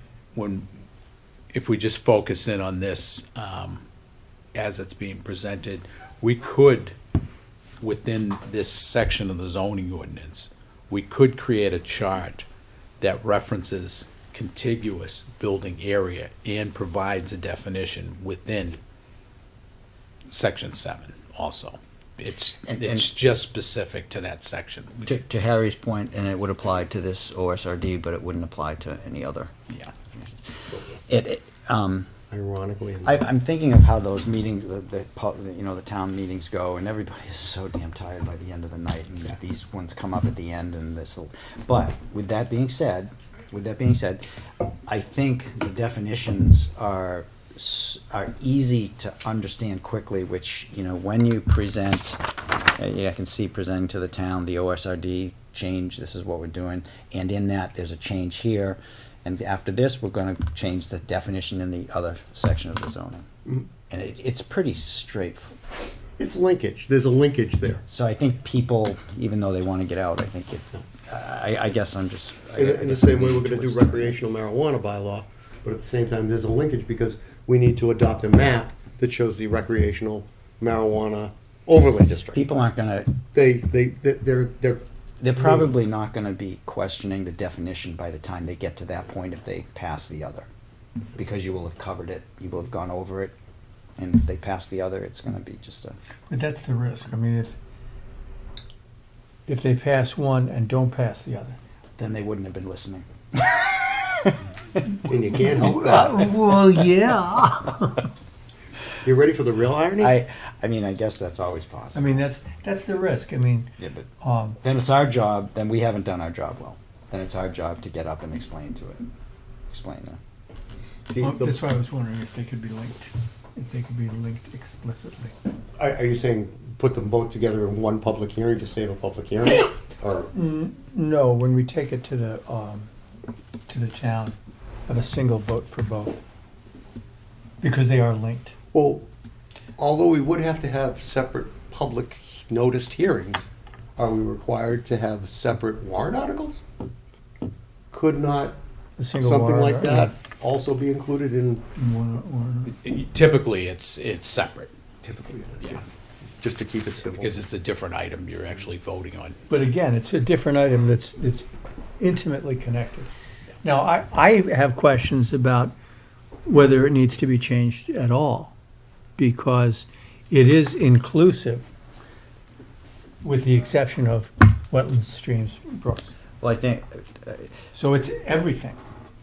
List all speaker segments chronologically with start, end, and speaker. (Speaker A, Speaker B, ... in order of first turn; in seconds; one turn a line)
Speaker A: 0.3-0.7
Speaker A: 1.5-3.8
Speaker A: 4.5-7.0
Speaker A: 7.8-12.4
Speaker A: 13.0-18.8
Speaker A: 20.3-25.1
Speaker B: 22.7-23.1
Speaker B: 25.0-29.5
Speaker A: 29.7-29.9
Speaker C: 30.7-31.0
Speaker B: 31.1-32.1
Speaker C: 32.3-33.2
Speaker B: 33.0-52.2
Speaker B: 52.8-63.2
Speaker B: 63.9-65.9
Speaker C: 66.2-67.8
Speaker B: 67.9-74.2
Speaker C: 72.5-82.4
Speaker B: 82.3-83.2
Speaker C: 83.3-84.8
Speaker B: 85.2-90.5
Speaker C: 85.3-85.7
Speaker B: 91.2-93.3
Speaker B: 94.0-96.0
Speaker D: 96.3-97.5
Speaker D: 99.5-101.6
Speaker B: 102.0-104.8
Speaker C: 105.0-106.4
Speaker D: 105.5-108.1
Speaker C: 109.0-110.1
Speaker B: 110.0-112.2
Speaker D: 111.9-114.6
Speaker B: 113.8-114.1
Speaker B: 114.6-119.1
Speaker B: 119.7-120.2
Speaker C: 121.1-121.6
Speaker D: 121.2-125.3
Speaker C: 125.8-130.3
Speaker D: 130.3-132.9
Speaker D: 133.7-134.3
Speaker D: 134.9-136.2
Speaker D: 137.6-138.5
Speaker C: 138.7-139.1
Speaker C: 139.8-146.6
Speaker C: 147.9-148.6
Speaker D: 149.0-150.1
Speaker C: 149.1-151.6
Speaker D: 151.8-152.7
Speaker A: 152.7-154.7
Speaker C: 155.0-155.8
Speaker C: 156.4-157.3
Speaker A: 157.2-159.4
Speaker D: 159.5-161.5
Speaker D: 162.0-163.1
Speaker D: 163.6-165.7
Speaker D: 166.4-168.5
Speaker D: 169.2-171.7
Speaker D: 173.2-176.1
Speaker B: 176.4-177.5
Speaker D: 177.7-178.8